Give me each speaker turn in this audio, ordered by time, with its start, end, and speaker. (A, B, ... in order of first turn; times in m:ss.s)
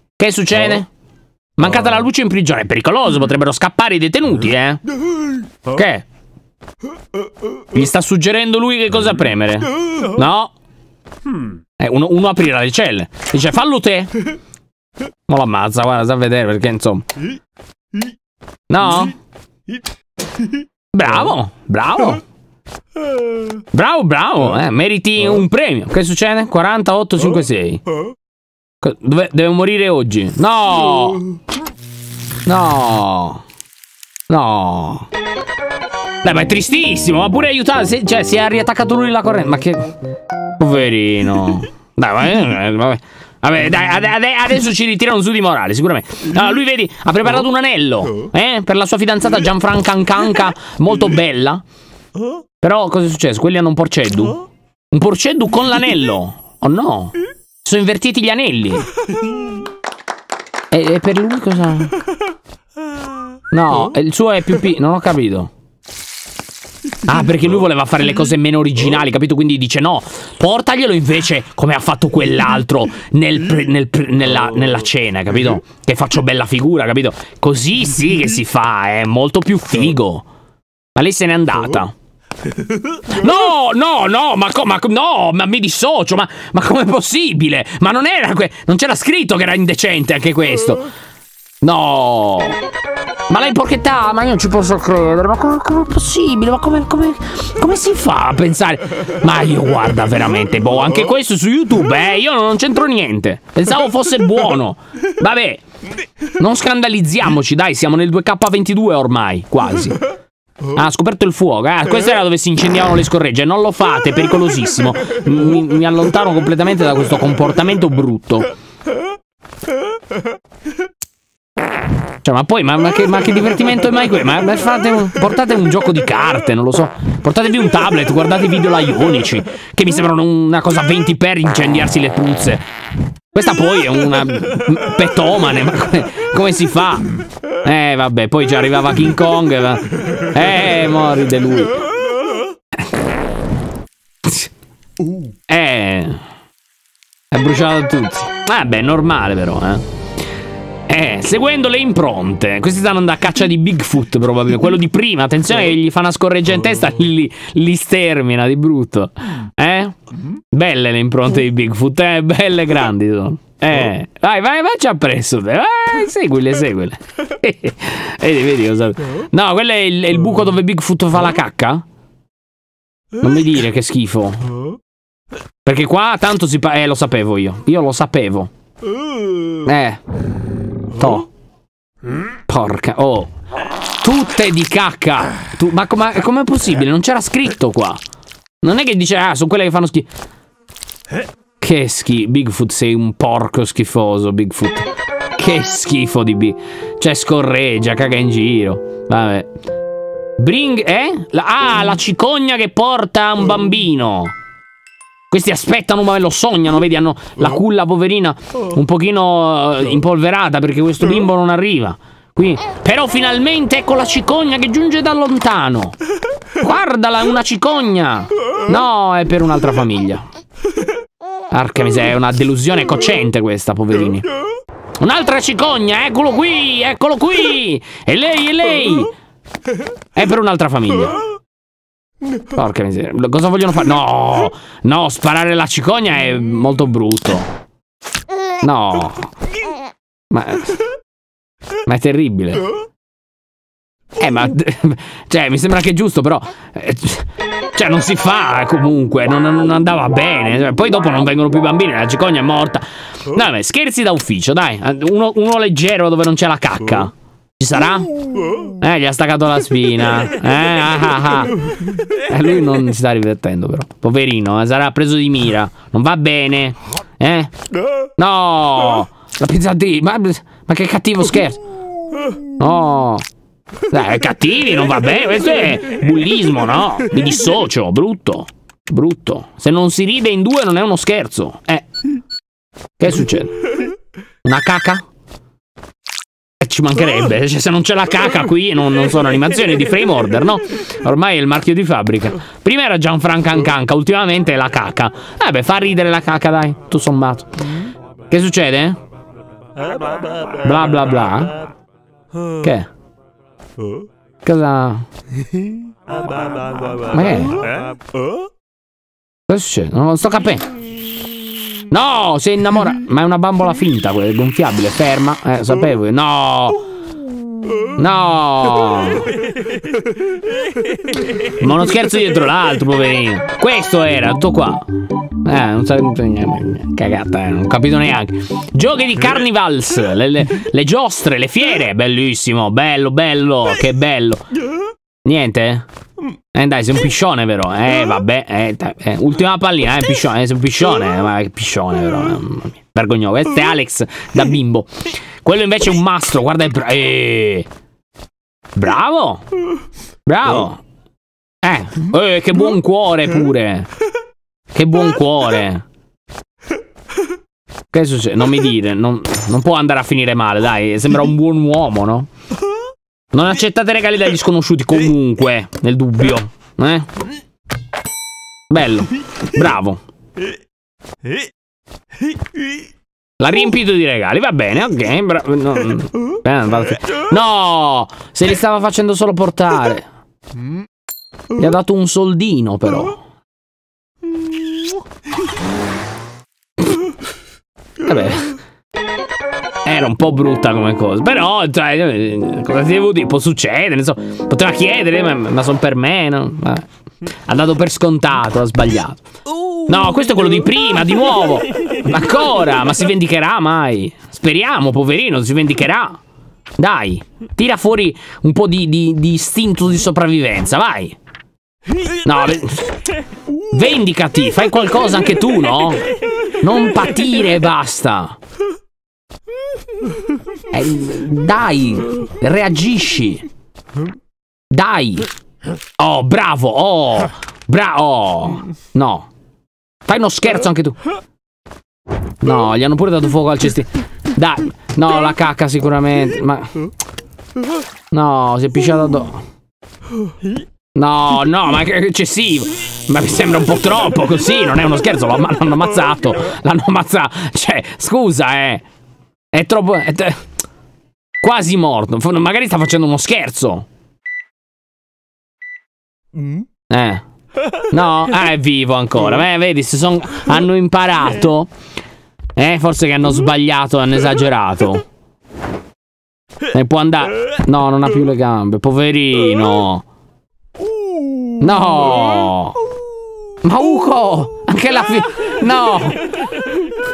0:00.2-0:00.9 A
0:01.6-0:04.8 A
0:05.6-0:06.0 A
0:07.7-0:10.5 A
0:11.8-0:14.2 A
0:15.3-0:17.1 A
0:18.7-0:19.2 A
0:20.9-0:22.2 A
0:23.5-0:27.8 A
0:28.8-0:31.2 A
0:32.4-0:33.4 A
0:34.3-0:35.1 A
0:36.2-0:40.0 A
0:40.6-0:51.6 A
0:52.6-0:58.9 A
1:00.7-1:02.0 A
1:03.5-1:05.5 A
1:07.0-1:20.2 A
1:20.9-1:21.9 A
1:22.9-1:30.9 A
1:31.6-1:32.6 A
1:33.3-1:45.6 A
1:46.3-1:50.0 A
1:50.7-1:58.5 A
2:02.2-2:12.6 A
2:13.3-2:21.8 A
2:25.5-2:26.2 A
2:27.3-2:29.8 A
2:30.9-2:51.8 A
2:53.2-2:54.5 A
2:55.6-2:58.5 A
2:59.6-3:00.0 A
3:00.9-3:01.3 A
3:02.5-3:03.3 A
3:04.0-3:08.0 A
3:08.6-3:10.1 A
3:11.6-3:19.5 A
3:20.4-3:24.3 A
3:25.3-3:36.0 A
3:36.6-3:40.2 A
3:41.5-3:44.3 A
3:45.0-3:49.1 A
3:50.1-3:51.2 A
3:52.4-3:57.5 A
3:58.6-3:59.3 A
4:00.3-4:00.8 A
4:01.8-4:02.7 A
4:04.2-4:27.5 A
4:28.2-4:31.6 A
4:32.5-4:33.2 A
4:33.9-4:41.9 A
4:43.0-4:43.6 A
4:44.4-4:45.0 A
4:46.6-4:57.5 A
4:58.3-4:59.0 A
5:00.6-5:01.6 A
5:02.6-5:02.9 A
5:04.4-5:05.1 A
5:07.1-5:07.7 A
5:09.5-5:10.7 A
5:11.9-5:16.8 A
5:18.0-5:19.3 A
5:21.5-5:34.4 A
5:35.2-5:35.8 A
5:36.5-5:47.7 A
5:48.7-5:49.5 A
5:50.2-5:50.8 A
5:51.6-5:53.9 A
5:54.7-5:55.8 A
5:57.9-6:02.3 A
6:03.3-6:07.1 A
6:08.7-6:10.0 A
6:13.4-6:20.1 A
6:21.5-6:23.2 A
6:28.0-6:28.6 A
6:29.8-6:36.9 A
6:37.4-6:39.2 A
6:39.8-6:46.2 A
6:46.8-6:51.2 A
6:52.2-6:53.0 A
6:53.7-6:58.4 A
7:00.7-7:03.4 A
7:04.7-7:05.3 A
7:06.0-7:09.3 A
7:10.0-7:11.0 A
7:12.4-7:16.7 A
7:18.1-7:19.4 A
7:21.0-7:28.8 A
7:29.5-7:30.4 A
7:31.4-7:33.8 A
7:36.9-7:37.2 A
7:37.7-7:41.7 A
7:42.6-7:45.0 A
7:46.7-7:50.0 A
7:51.6-7:52.8 A
7:53.6-7:56.3 A